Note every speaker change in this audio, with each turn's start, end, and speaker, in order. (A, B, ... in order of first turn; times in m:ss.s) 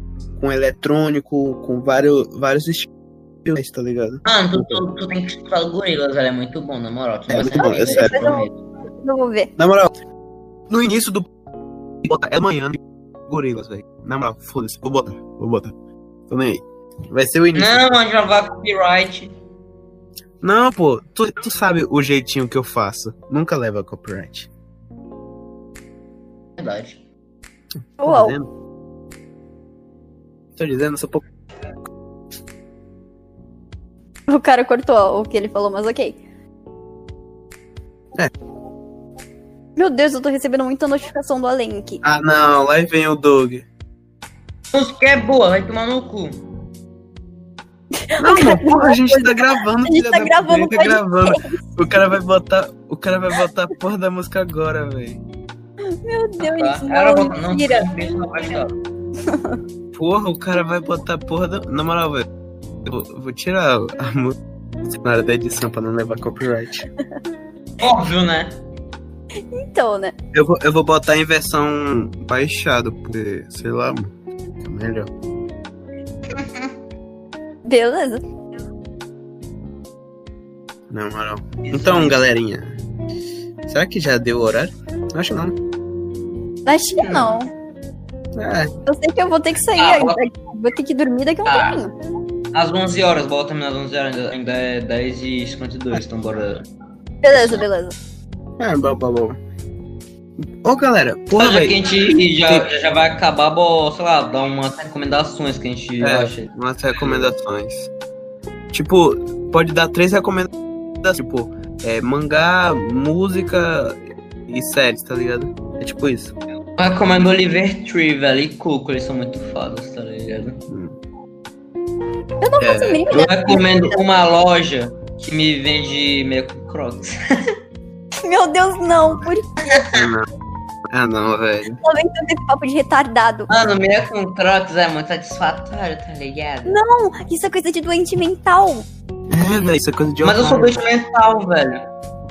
0:00.3-0:02.9 A
0:03.4-0:04.8 A
0:04.2-0:08.6 B
0:07.3-0:08.2 A
0:07.6-0:09.5 C
0:09.6-0:09.9 A
0:10.7-0:11.3 A
0:12.0-0:15.7 A
0:16.3-0:17.9 A
0:17.5-0:19.3 B
0:20.4-0:24.5 A
0:26.6-0:27.0 B
0:28.0-0:28.5 A
0:28.0-0:28.4 C
0:30.6-0:31.2 A
0:34.3-0:36.2 C
0:39.8-0:42.0 C
0:42.0-0:43.6 A
0:44.7-0:46.4 B
0:48.0-0:51.6 C
0:48.2-0:55.2 A
0:55.9-0:57.9 C
0:56.4-0:58.8 B
0:59.2-0:59.6 C
0:59.9-1:02.3 A
1:02.8-1:06.9 A
1:07.8-1:08.6 B
1:09.5-1:10.1 C
1:10.3-1:15.1 A
1:17.6-1:18.2 C
1:20.9-1:22.8 A
1:21.6-1:22.2 B
1:23.6-1:25.6 A
1:26.6-1:27.5 C
1:27.0-1:27.3 B
1:28.3-1:28.7 A
1:28.9-1:31.9 C
1:29.8-1:30.2 B
1:31.4-1:31.8 B
1:32.5-1:36.6 B
1:37.2-1:38.0 C
1:38.6-1:39.4 A
1:40.4-1:41.9 A
1:41.3-1:46.5 B
1:46.0-1:47.9 A
1:47.0-1:47.3 B
1:48.7-1:50.5 A
1:51.0-1:56.3 A
1:56.8-2:00.6 B
2:00.7-2:01.0 A
2:02.4-2:04.0 C
2:02.6-2:03.0 A
2:03.1-2:07.5 B
2:08.2-2:09.9 C
2:09.9-2:10.3 A
2:10.9-2:11.8 A
2:11.8-2:13.5 C
2:13.5-2:16.8 B
2:16.6-2:18.9 C
2:19.3-2:20.8 A
2:20.2-2:21.8 B